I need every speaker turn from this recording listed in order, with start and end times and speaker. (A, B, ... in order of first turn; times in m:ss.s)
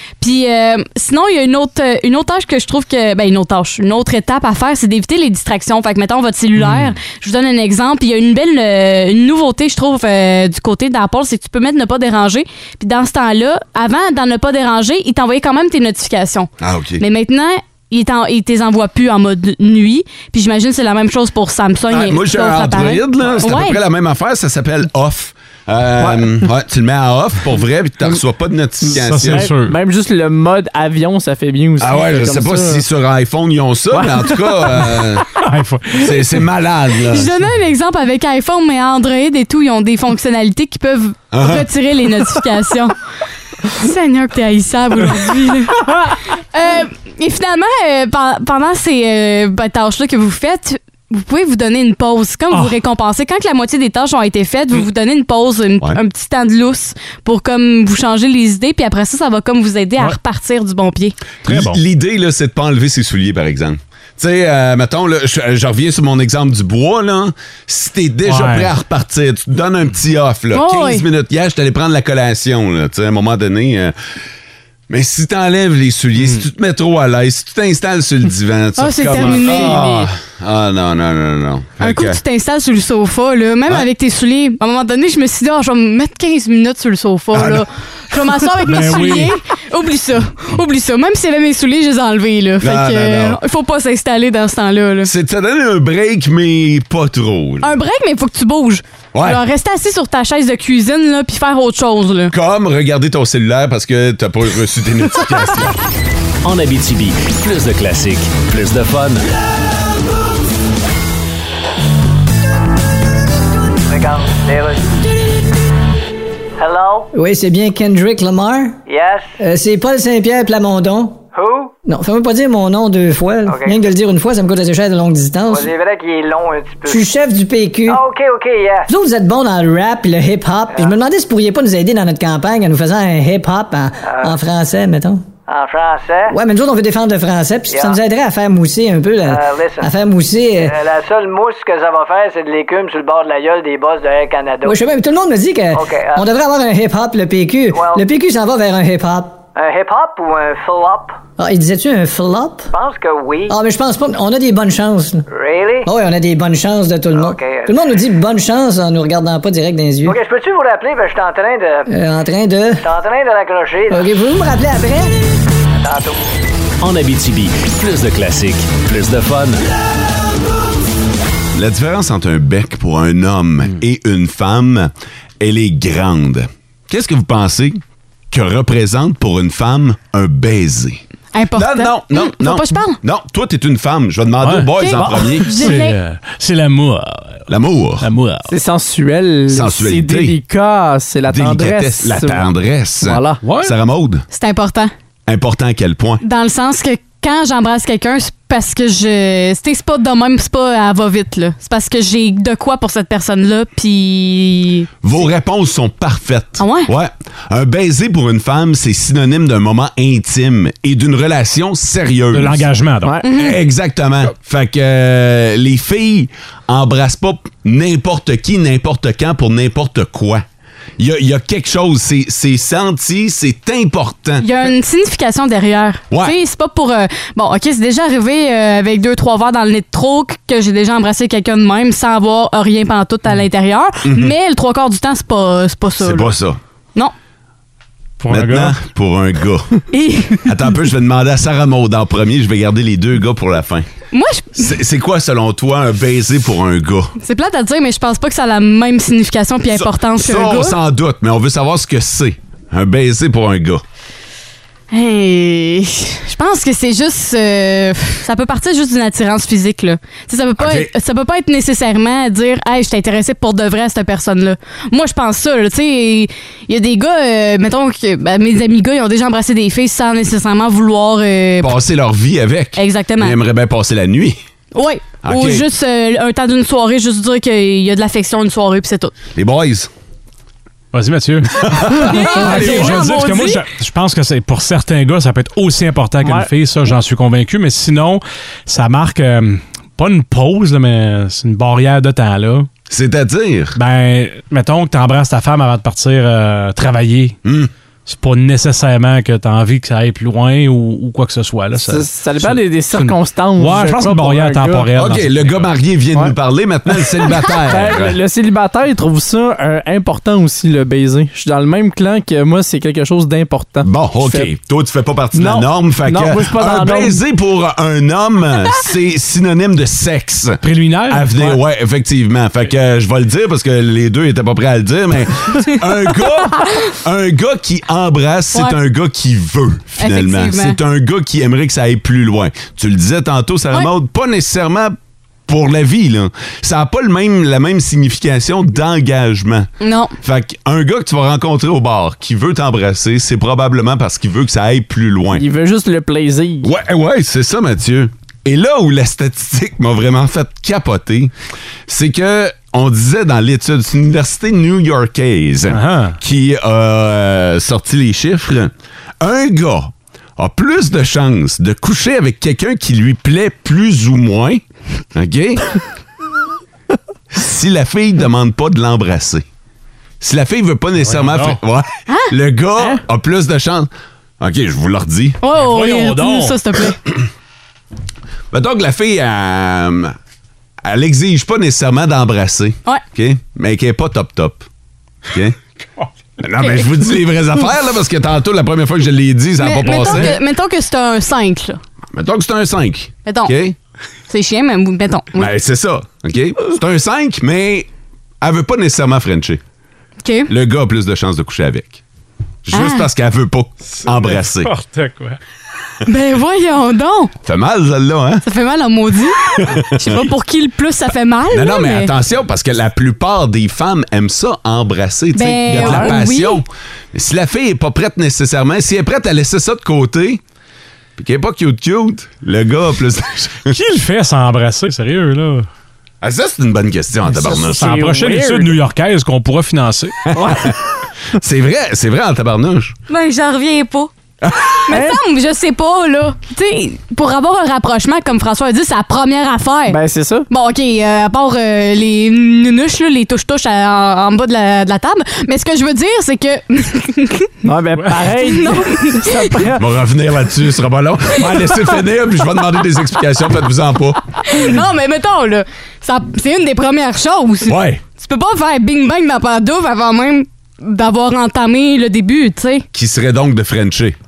0:00.2-0:23.8 A
0:16.6-0:17.0 B
0:21.9-0:29.5 B
0:26.0-0:26.3 C
0:28.9-0:29.8 D
0:29.0-0:32.8 C
0:31.8-0:35.3 B
0:33.9-0:34.6 C
0:35.4-0:36.3 D
0:36.0-0:37.3 B
0:37.1-0:42.9 A
0:41.3-0:41.7 B
0:43.7-1:01.2 A
1:01.4-1:13.9 B
1:01.4-1:01.8 D
1:08.2-1:08.7 D
1:10.5-1:11.0 A
1:14.9-1:22.2 B
1:18.8-1:20.1 A
1:21.8-1:35.1 A
1:27.3-1:27.6 B
1:28.6-1:29.3 D
1:32.6-1:33.4 B
1:35.0-1:37.7 B
1:37.6-1:42.3 A
1:39.1-1:39.4 B
1:42.3-1:45.8 B
1:46.4-1:49.2 E
1:53.9-1:54.9 F
1:56.6-1:57.1 F
1:57.1-1:58.8 G
1:58.9-1:59.4 F
1:59.4-2:01.2 G
2:01.3-2:01.7 F
2:01.8-2:05.7 G
2:03.4-2:03.9 F
2:05.5-2:07.1 F
2:06.8-2:08.0 G
2:07.8-2:08.9 F
2:08.9-2:15.2 G
2:14.1-2:14.3 F
2:15.5-2:16.3 F
2:16.3-2:20.8 G
2:17.7-2:18.0 F
2:19.2-2:19.9 F
2:20.6-2:24.8 F
2:24.6-2:29.4 G
2:25.7-2:26.3 F
2:27.7-2:28.0 F
2:29.5-2:31.2 F
2:31.4-2:32.7 G
2:32.7-2:33.6 F
2:33.5-2:35.2 G
2:35.3-2:35.9 F
2:35.8-2:40.2 G
2:37.1-2:37.8 F
2:40.0-2:41.9 F
2:41.9-2:42.8 G
2:42.8-2:44.1 F
2:43.9-2:45.1 G
2:45.8-2:46.2 F
2:46.8-2:49.6 E
2:51.5-3:01.0 B
3:01.3-3:03.0 A
3:01.5-3:05.6 B
3:04.4-3:07.4 D
3:04.8-3:06.0 A
3:07.5-3:08.1 B
3:08.0-3:08.5 D
3:08.5-3:12.5 C
3:09.5-3:10.4 B
3:11.3-3:14.2 B
3:13.0-3:13.4 C
3:13.4-3:13.7 D
3:14.3-3:14.9 A
3:15.3-3:16.2 B
3:16.2-3:24.9 A
3:25.0-3:32.7 B
3:26.6-3:26.9 A
3:32.3-3:33.2 D
3:33.2-3:33.6 A
3:33.3-3:40.4 B
3:41.0-3:44.5 B
3:44.4-3:56.3 A
3:46.1-3:46.4 B
3:54.0-3:54.3 B
3:56.0-3:56.6 B
3:58.2-3:58.8 D
3:58.3-3:59.8 B
3:59.9-4:00.5 A
4:00.4-4:03.9 B
4:04.1-4:04.7 A
4:04.6-4:07.1 B
4:07.2-4:10.8 A
4:09.7-4:13.8 B
4:14.9-4:31.7 A
4:20.6-4:20.9 B
4:31.6-4:34.4 B
4:32.8-4:33.4 A
4:34.7-4:39.1 A
4:35.2-4:35.6 B
4:39.3-4:39.9 B
4:40.9-4:52.7 D
4:41.6-4:42.9 B
4:42.0-4:43.6 A
4:46.2-4:46.5 C
4:52.9-4:53.8 B
4:53.8-4:57.4 D
4:57.4-4:57.7 B
4:58.0-5:05.7 D
5:01.7-5:04.9 C
5:05.0-5:08.2 B
5:07.6-5:14.5 C
5:13.8-5:35.0 B
5:15.3-5:17.2 C
5:20.6-5:21.6 D
5:30.0-5:30.8 A
5:35.5-5:39.7 B
5:39.8-5:40.1 A
5:40.2-5:45.4 B
5:45.3-5:46.7 C
5:46.6-5:51.3 B
5:51.9-6:04.6 B
5:55.7-5:56.2 D
6:05.1-6:05.8 B
6:07.3-6:09.4 B
6:10.2-6:13.9 B
6:11.0-6:11.6 D
6:12.1-6:12.3 A
6:14.4-6:15.4 B
6:15.4-6:17.0 A
6:15.5-6:16.6 D
6:18.5-6:20.2 B
6:20.8-6:24.6 B
6:25.3-6:25.6 B
6:26.4-6:30.4 B
6:26.6-6:26.9 A
6:29.6-6:31.8 A
6:32.1-6:33.8 B
6:33.2-6:33.5 A
6:34.3-6:35.5 A
6:35.3-6:37.9 B
6:38.4-6:39.6 B
6:40.2-6:40.5 A
6:40.5-6:42.0 B
6:42.6-6:44.7 B
6:42.7-6:43.1 A
6:44.0-6:45.4 D
6:46.0-6:47.3 A
6:47.4-6:48.4 B
6:48.4-6:52.1 A
6:49.4-6:50.2 B
6:51.5-7:00.4 B
6:55.3-6:56.6 A
6:55.7-6:56.1 C
7:01.2-7:03.7 B
7:03.7-7:05.7 D
7:06.2-7:07.9 B
7:07.3-7:08.8 C
7:07.6-7:10.2 D
7:10.3-7:10.8 B
7:10.4-7:10.6 C
7:11.3-7:12.9 B
7:13.1-7:14.1 A
7:14.4-7:14.9 B
7:14.9-7:20.0 A
7:14.9-7:15.2 C
7:19.9-7:20.5 C
7:20.5-7:27.5 A
7:27.6-7:29.8 C
7:28.0-7:28.3 D
7:28.4-7:29.6 A
7:29.8-7:34.2 B
7:34.4-7:42.8 A
7:37.6-7:38.0 B
7:42.9-7:44.2 B